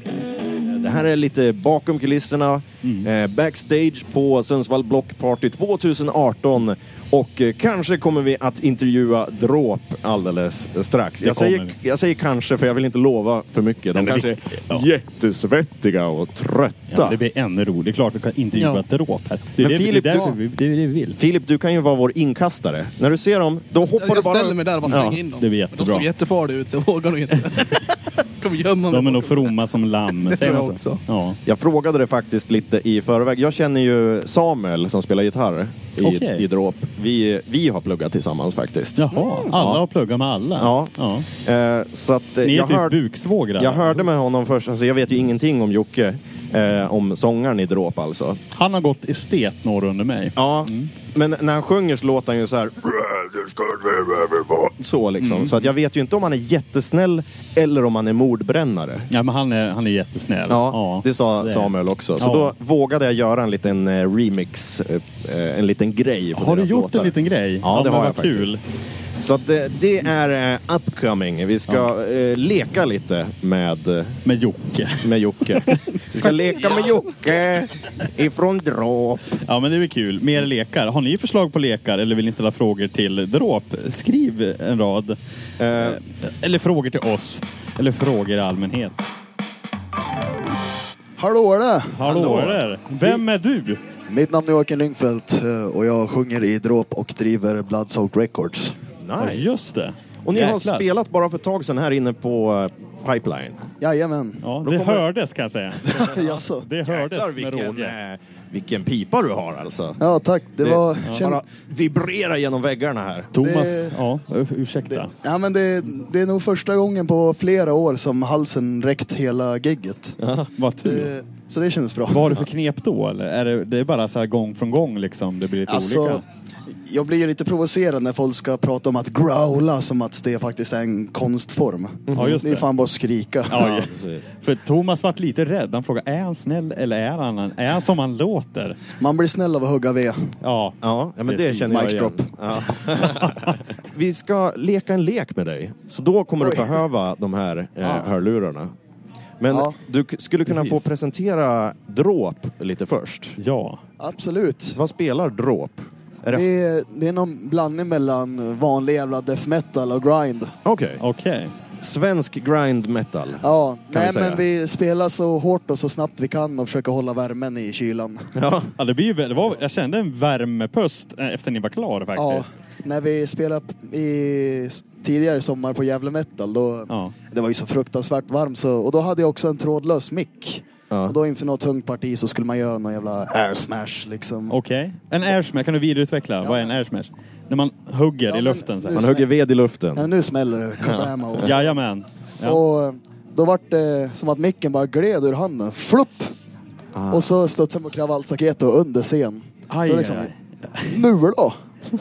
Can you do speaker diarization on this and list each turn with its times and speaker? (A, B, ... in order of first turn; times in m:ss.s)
0:00.7-0:17.2 A
0:02.8-0:03.1 B
0:11.2-0:11.8 B
0:14.0-0:14.8 B
0:16.9-0:21.2 B
0:19.6-0:20.4 A
0:21.2-0:25.2 A
0:23.9-0:29.6 C
0:24.9-0:26.1 B
0:28.9-0:31.4 B
0:30.1-0:31.0 C
0:31.4-0:39.8 A
0:36.0-0:36.4 B
0:39.0-0:41.3 B
0:40.6-0:43.0 A
0:42.4-0:44.0 B
0:43.6-0:48.4 A
0:48.5-0:50.9 B
0:50.4-0:59.1 A
0:55.2-0:55.7 B
0:59.1-1:02.5 B
1:00.5-1:08.5 A
1:06.4-1:08.6 B
1:09.2-1:14.2 A
1:14.3-1:15.7 B
1:15.0-1:19.4 A
1:19.4-1:25.2 B
1:25.6-1:26.0 A
1:25.8-1:29.0 B
1:31.2-1:32.1 D
1:32.0-1:33.8 B
1:32.1-1:32.6 A
1:34.1-1:38.8 D
1:39.0-1:39.6 A
1:39.2-1:40.8 B
1:40.3-1:43.6 A
1:43.8-1:44.4 D
1:44.4-1:47.9 B
1:44.6-1:45.0 A
1:45.9-1:46.7 D
1:46.8-1:50.0 A
1:50.0-1:51.4 D
1:50.6-1:53.3 A
1:51.0-1:51.3 B
1:53.3-1:55.1 B
1:53.4-1:54.0 D
1:54.9-2:00.2 D
2:00.2-2:00.5 A
2:00.6-2:01.1 B
2:00.8-2:02.4 D
2:02.1-2:06.2 B
2:05.7-2:13.7 D
2:12.1-2:12.4 A
2:12.2-2:12.7 B
2:13.5-2:18.8 B
2:13.6-2:14.3 A
2:19.0-2:20.4 D
2:20.4-2:20.8 B
2:20.8-2:28.7 A
2:21.3-2:21.9 B
2:21.6-2:22.3 D
2:23.0-2:23.6 B
2:26.4-2:26.8 D
2:27.8-2:28.1 D
2:29.4-2:33.4 A
2:29.5-2:29.8 D
2:30.5-2:30.8 B
2:33.4-2:33.8 B
2:34.0-2:34.8 D
2:34.8-2:36.4 A
2:36.3-2:40.6 D
2:40.6-2:41.0 A
2:41.0-2:41.5 B
2:41.8-2:44.4 A
2:43.4-2:48.3 D
2:48.4-2:48.7 A
2:48.8-2:52.4 B
2:52.2-3:04.6 D
2:56.9-2:57.2 B
3:00.9-3:01.2 A
3:04.5-3:09.2 B
3:06.4-3:06.8 D
3:08.3-3:09.3 D
3:08.9-3:10.1 A
3:10.0-3:11.7 D
3:10.8-3:11.5 A
3:11.4-3:12.6 B
3:12.4-3:16.3 D
3:16.9-3:17.3 A
3:17.1-3:21.6 D
3:19.7-3:20.9 B